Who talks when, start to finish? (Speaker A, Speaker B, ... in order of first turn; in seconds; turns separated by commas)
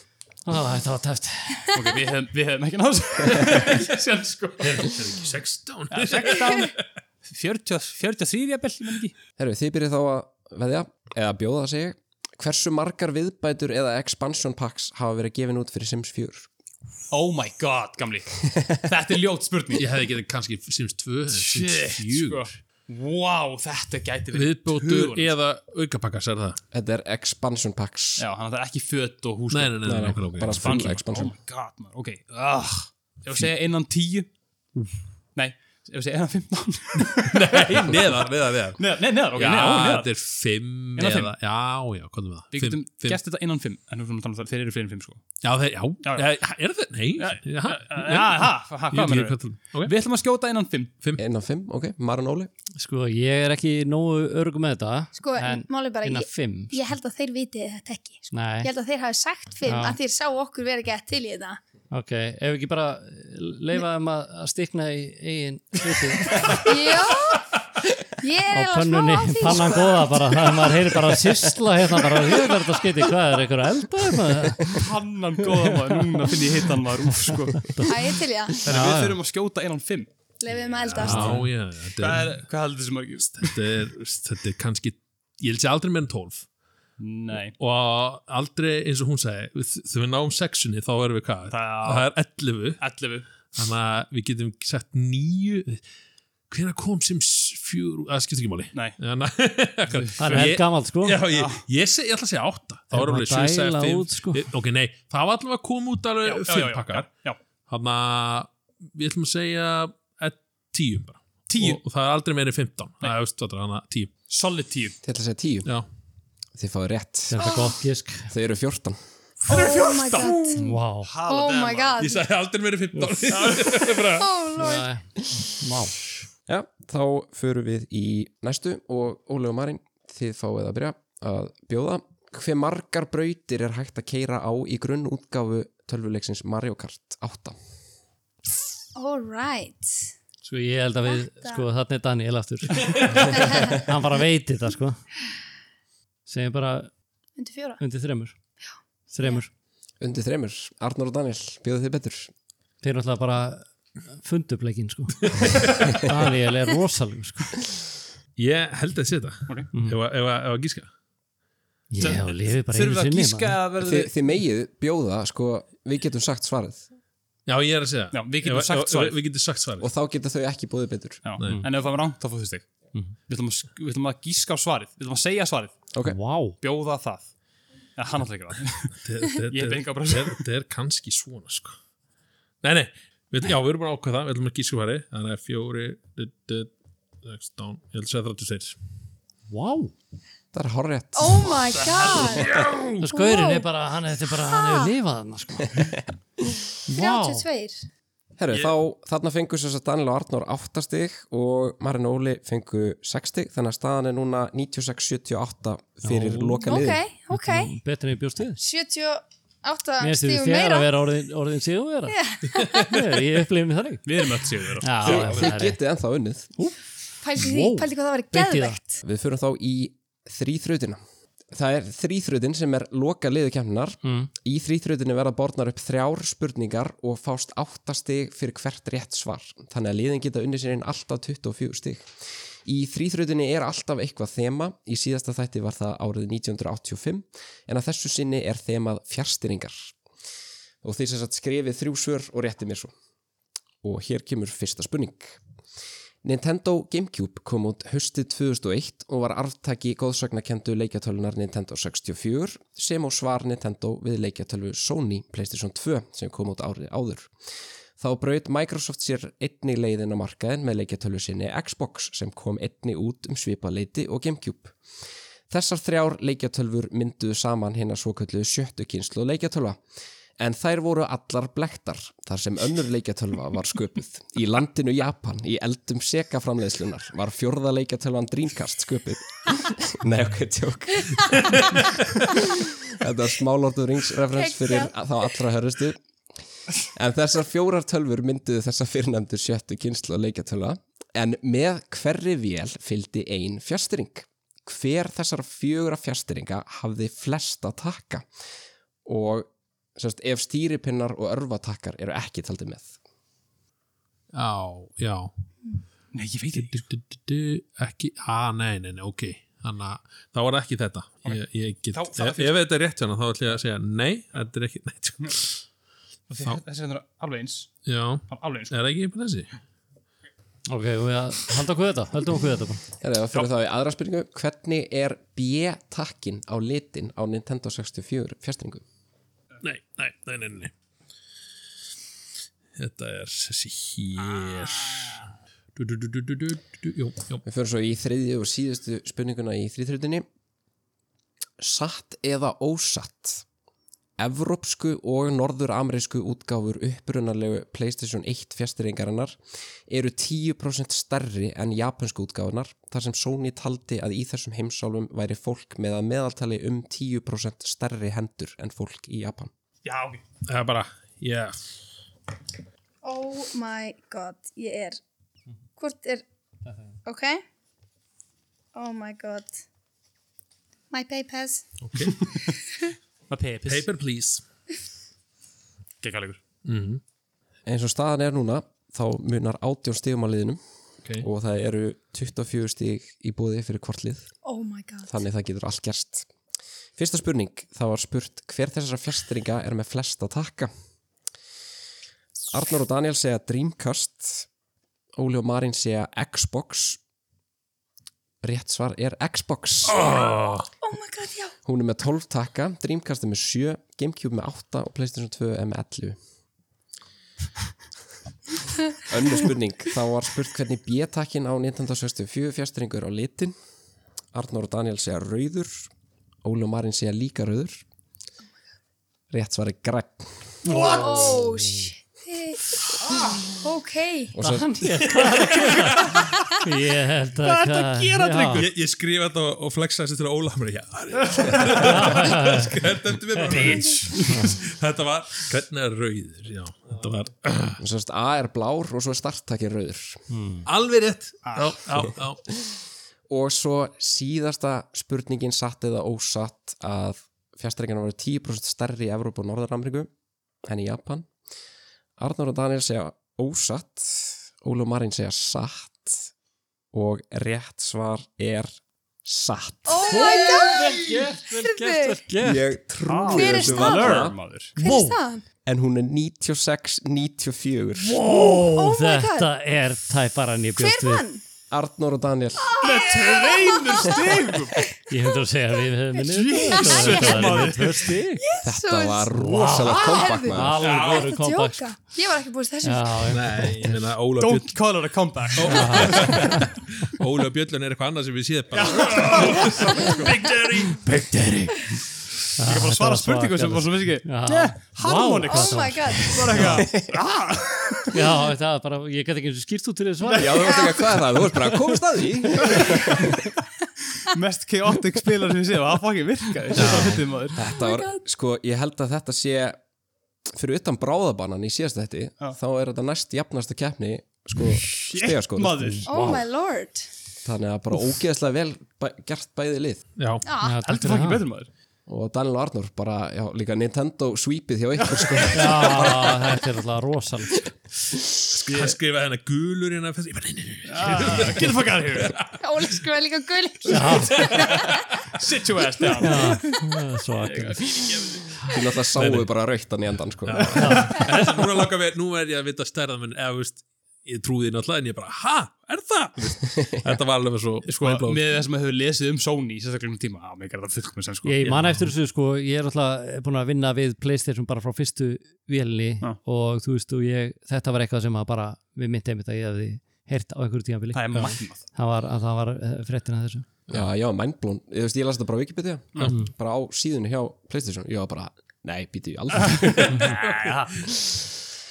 Speaker A: 0.4-1.8, Speaker B: 1.7-5.0, Speaker C: 4.6-6.8, Speaker B: 5.9-9.1, Speaker D: 9.4-16.5, Speaker B: 17.1-19.9, Speaker C: 19.7-22.6, Speaker B: 21.3-25.3, Speaker C: 24.3-26.6, Speaker D: 26.7-28.2, Speaker B: 28.2-34.3, Speaker C: 29.5-30.9, Speaker D: 29.8-31.3, Speaker B: 35.3-38.2, Speaker C: 37.0-38.8, Speaker B: 38.8-40.1, Speaker C: 39.3-43.2, Speaker B: 41.0-41.3, Speaker B: 42.5-45.2, Speaker C: 45.4-49.9, Speaker B: 47.2-50.9, Speaker D: 51.2-52.5, Speaker A: 52.8-56.8, Speaker E: 55.2-61.6, Speaker A: 58.3-58.7, Speaker A: 59.6-60.0, Speaker A: 61.9-66.7, Speaker E: 66.6-67.5, Speaker E: 68.2-70.7, Speaker A: 68.5-74.8, Speaker B: 74.7-77.7, Speaker A: 77.2-79.2, Speaker E: 77.8-78.6, Speaker B: 78.6-81.4, Speaker E: 80.4-81.4, Speaker C: 80.9-82.4, Speaker A: 81.0-81.5, Speaker B: 82.0-83.6, Speaker C: 83.3-86.4, Speaker B: 87.0-87.5, Speaker C: 87.6-92.8, Speaker B: 91.5-92.1, Speaker B: 92.8-93.3, Speaker C: 93.5-95.8, Speaker C: 96.5-107.1, Speaker B: 99.9-100.5, Speaker A: 100.2-101.2, Speaker B: 101.3-101.6, Speaker A: 102.9-104.5, Speaker B: 106.2-107.4, Speaker C: 107.7-114.1, Speaker B: 111.5-111.8, Speaker B: 114.3-115.0, Speaker D: 115.0-115.7, Speaker D: 116.5-117.5, Speaker A: 117.3-118.3, Speaker E: 117.4-117.7, Speaker D: 118.3-119.0, Speaker B: 119.5-122.0, Speaker E: 119.5-120.6, Speaker A: 120.6-121.1, Speaker E: 121.3-122.2, Speaker C: 122.0-124.3, Speaker B: 123.3-123.9, Speaker E: 124.1-124.9, Speaker A: 124.6-125.9, Speaker D: 126.5-137.6, Speaker E: 138.9-140.1, Speaker A: 140.4-145.0, Speaker E: 141.1-141.6, Speaker C: 142.9-143.2, Speaker E: 143.3-143.8, Speaker A: 146.2-146.9, Speaker E: 147.4-147.8, Speaker A: 147.8-148.4, Speaker A: 149.1-149.5, Speaker D: 150.0-152.3, Speaker A: 152.8-157.6, Speaker C: 155.2-156.1, Speaker C: 158.4-160.9, Speaker A: 161.9-163.6, Speaker B: 162.0-164.1, Speaker D: 163.8-166.8, Speaker C: 167.4-169.9, Speaker B: 168.1-169.2, Speaker D: 169.8-171.2, Speaker B: 171.2-172.7, Speaker C: 171.4-171.6, Speaker A: 171.4-171.7, Speaker B: 173.3-175.8, Speaker A: 176.0-176.6, Speaker B: 176.6-177.3, Speaker B: 178.0-180.4, Speaker C: 179.0-181.8, Speaker C: 182.6-188.8, Speaker A: 189.5-189.9, Speaker D: 190.5-191.6, Speaker E: 191.1-193.7, Speaker C: 191.7-193.0, Speaker B: 191.9-192.2, Speaker A: 193.0-195.9, Speaker E: 194.4-194.9, Speaker D: 195.7-196.7, Speaker A: 196.9-197.4, Speaker E: 196.9-197.8, Speaker D: 198.4-207.0, Speaker A: 206.0-208.6, Speaker E: 206.6-207.7, Speaker E: 208.6-210.9, Speaker A: 210.0-214.1, Speaker E: 212.1-213.0, Speaker B: 214.0-215.2, Speaker A: 214.8-215.8, Speaker D: 215.0-216.5, Speaker C: 215.0-215.3, Speaker E: 217.2-219.0, Speaker A: 217.3-218.8, Speaker D: 219.0-221.0, Speaker D: 221.5-239.9, Speaker A: 224.0-224.3, Speaker D: 240.8-242.9, Speaker D: 243.8-245.4, Speaker D: 246.2-257.3, Speaker D: 258.0-264.8, Speaker D: 265.5-269.8, Speaker D: 270.4-286.0, Speaker E: 284.3-284.9, Speaker D: 286.8-298.2, Speaker D: 299.0-303.0, Speaker C: 304.3-305.3, Speaker B: 306.1-306.9, Speaker C: 306.5-315.6, Speaker B: 311.2-312.6, Speaker B: 316.3-317.8, Speaker C: 317.8-319.5, Speaker B: 318.3-318.7, Speaker A: 320.7-322.8, Speaker D: 323.0-328.8, Speaker C: 329.6-330.7, Speaker C: 332.8-337.4, Speaker B: 334.3-334.9, Speaker D: 337.4-340.2, Speaker D: 341.6-343.4, Speaker D: 344.2-359.5, Speaker B: 359.8-360.2, Speaker C: 360.4-361.6, Speaker E: 363.0-365.0, Speaker E: 365.8-366.2, Speaker E: 367.0-367.4, Speaker E: 368.7-369.6, Speaker E: 370.9-371.7, Speaker C: 371.8-372.3, Speaker B: 373.3-373.9, Speaker C: 373.6-374.4, Speaker B: 376.0-376.4, Speaker C: 376.6-377.0, Speaker D: 377.6-380.6, Speaker D: 381.2-384.3, Speaker E: 384.4-385.2, Speaker D: 385.1-386.3, Speaker D: 387.0-390.7, Speaker D: 392.5-394.5, Speaker D: 395.1-397.0, Speaker D: 398.4-400.1, Speaker C: 399.9-400.7, Speaker E: 400.2-401.5, Speaker D: 401.6-406.2, Speaker D: 409.0-413.5, Speaker D: 414.3-415.9, Speaker D: 416.4-417.8, Speaker D: 419.3-420.7, Speaker E: 420.6-424.4, Speaker A: 420.6-421.9, Speaker D: 424.3-424.9, Speaker A: 424.4-428.6, Speaker C: 425.1-426.2, Speaker B: 425.5-426.5, Speaker B: 427.4-428.7, Speaker C: 428.5-437.8, Speaker B: 431.2-431.8, Speaker A: 431.8-432.7, Speaker B: 433.4-434.6, Speaker A: 434.3-434.6, Speaker D: 437.8-440.2, Speaker A: 440.3-440.6, Speaker C: 440.6-442.4, Speaker B: 441.4-441.8, Speaker D: 442.5-450.1, Speaker D: 450.6-451.3, Speaker D: 452.2-456.3, Speaker D: 456.9-458.7, Speaker D: 459.2-460.5, Speaker E: 459.9-462.2, Speaker A: 460.0-462.7, Speaker D: 462.4-464.4, Speaker B: 463.1-464.8, Speaker E: 463.3-465.4, Speaker A: 464.8-465.2, Speaker D: 465.6-468.2, Speaker A: 468.0-471.2, Speaker E: 468.2-469.5, Speaker E: 470.8-471.4, Speaker D: 471.7-472.8, Speaker E: 472.6-474.9, Speaker B: 472.8-474.9, Speaker A: 475.1-478.4, Speaker B: 476.2-478.1, Speaker E: 476.5-477.8, Speaker E: 478.4-483.5, Speaker D: 478.6-480.8, Speaker A: 479.3-481.9, Speaker B: 480.8-481.3, Speaker A: 482.8-484.0, Speaker C: 483.3-484.7, Speaker B: 484.4-486.6, Speaker C: 485.5-491.2, Speaker A: 485.6-486.7, Speaker B: 488.7-490.3, Speaker A: 490.9-492.0, Speaker A: 492.6-496.9, Speaker B: 492.6-498.1, Speaker E: 495.4-496.9, Speaker D: 496.7-497.1, Speaker A: 498.1-500.7, Speaker B: 500.2-501.9, Speaker D: 500.4-503.4, Speaker B: 502.6-503.4, Speaker B: 504.2-507.6, Speaker C: 506.7-507.2, Speaker D: 507.5-509.8, Speaker E: 507.6-508.2, Speaker D: 510.5-516.5, Speaker B: 514.7-516.1, Speaker E: 516.0-517.1, Speaker D: 517.4-520.0, Speaker C: 520.2-520.5, Speaker E: 520.4-520.8, Speaker A: 520.6-521.4, Speaker B: 520.8-521.7, Speaker D: 522.1-526.3, Speaker B: 525.0-526.3, Speaker A: 525.5-527.6, Speaker C: 528.6-532.5, Speaker B: 528.7-528.9, Speaker B: 530.9-532.3, Speaker E: 532.6-535.0, Speaker A: 533.9-534.5, Speaker B: 534.0-536.9, Speaker A: 536.2-537.8, Speaker B: 537.4-538.7, Speaker D: 538.7-540.8, Speaker C: 539.2-539.5, Speaker C: 540.5-548.4, Speaker B: 540.5-541.6, Speaker A: 540.8-541.2, Speaker B: 547.9-551.6, Speaker A: 551.4-563.7, Speaker C: 551.6-552.1, Speaker B: 561.1-561.8, Speaker C: 561.3-561.6, Speaker D: 563.9-570.4, Speaker B: 569.9-571.0, Speaker C: 570.0-571.1